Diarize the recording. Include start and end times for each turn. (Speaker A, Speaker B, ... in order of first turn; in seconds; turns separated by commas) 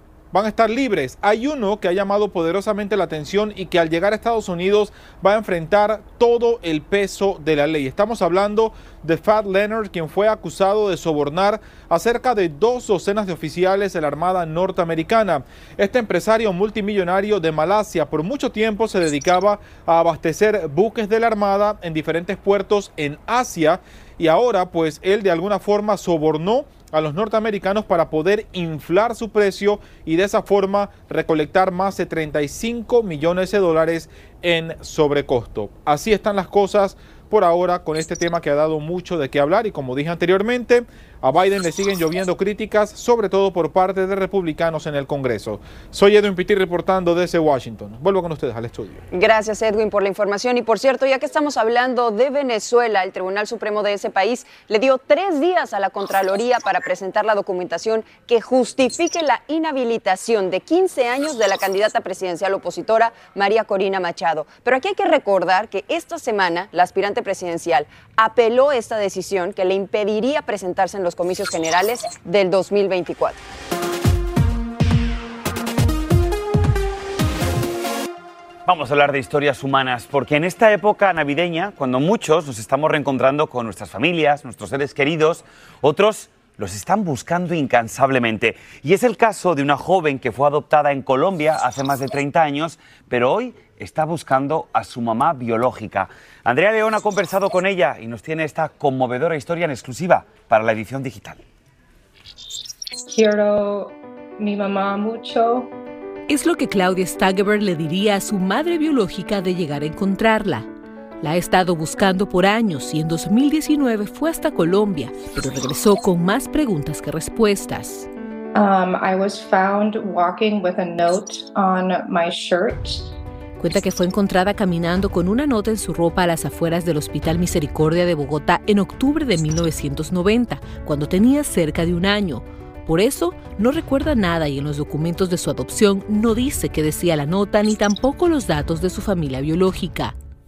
Speaker A: 0.3-49.0, Speaker B: 49.1-73.4, Speaker C: 78.7-101.4, Speaker D: 103.1-105.7, Speaker E: 106.3-110.7, Speaker E: 111.2-118.1, Speaker D: 118.5-123.2, Speaker E: 123.6-140.2